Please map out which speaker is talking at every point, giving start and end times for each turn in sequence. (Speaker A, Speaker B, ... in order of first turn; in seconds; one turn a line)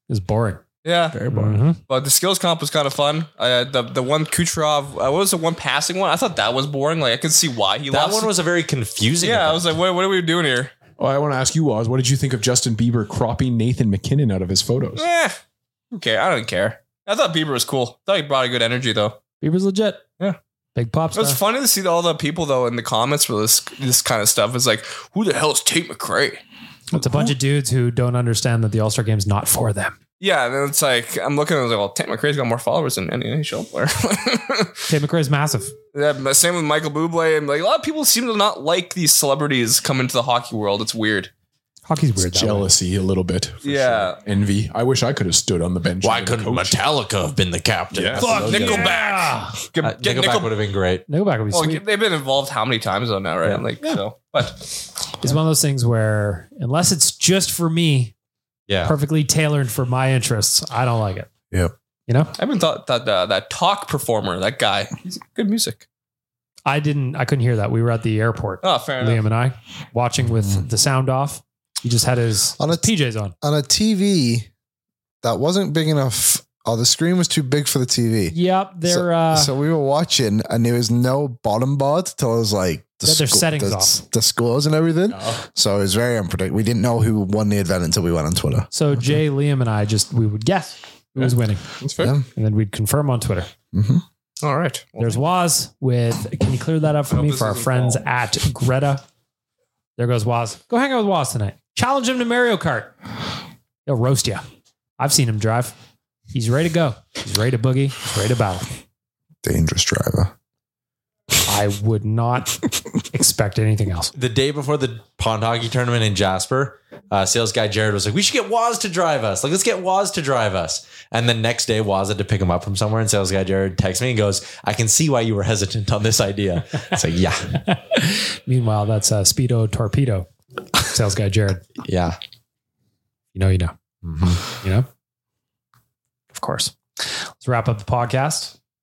Speaker A: 0.1-0.6
Speaker B: 0.8-1.2
Speaker C: 1.1-1.6
Speaker A: 1.3-1.8
Speaker B: 1.8-8.3
Speaker C: 7.9-9.7
Speaker B: 9.2-10.7
Speaker D: 11.0-15.1
Speaker B: 15.0-15.4
Speaker B: 15.9-19.2
Speaker A: 19.4-20.0
Speaker A: 20.8-21.4
Speaker B: 21.1-26.4
Speaker A: 26.9-30.0
Speaker B: 30.2-34.7
Speaker A: 34.9-35.7
Speaker B: 35.9-41.3
Speaker A: 41.9-42.7
Speaker D: 42.2-46.8
Speaker B: 43.6-44.2
Speaker C: 46.0-48.9
Speaker D: 47.9-48.9
Speaker A: 48.2-49.6
Speaker B: 48.5-50.5
Speaker C: 49.8-51.0
Speaker A: 51.1-51.8
Speaker B: 51.5-54.9
Speaker A: 55.2-58.1
Speaker C: 58.7-58.9
Speaker A: 58.8-61.3
Speaker A: 62.1-62.3
Speaker B: 62.4-65.8
Speaker A: 66.7-73.3
Speaker B: 68.6-69.2
Speaker E: 72.6-74.5
Speaker E: 75.2-88.7
Speaker A: 78.3-79.5
Speaker A: 83.0-84.0
Speaker D: 85.1-85.4
Speaker A: 88.7-91.7
Speaker D: 91.2-92.2
Speaker A: 92.3-93.5
Speaker E: 93.7-94.0
Speaker B: 94.4-95.2
Speaker A: 95.0-99.0
Speaker B: 97.1-98.0
Speaker A: 100.0-103.0
Speaker A: 103.9-104.4
Speaker A: 105.0-105.8
Speaker A: 106.3-108.7
Speaker E: 109.4-110.3
Speaker A: 111.5-114.1
Speaker C: 114.1-127.6
Speaker A: 127.7-130.3
Speaker A: 130.9-131.7
Speaker C: 131.8-132.2
Speaker A: 133.3-133.7
Speaker C: 134.0-134.4
Speaker A: 134.4-134.9
Speaker A: 136.3-138.6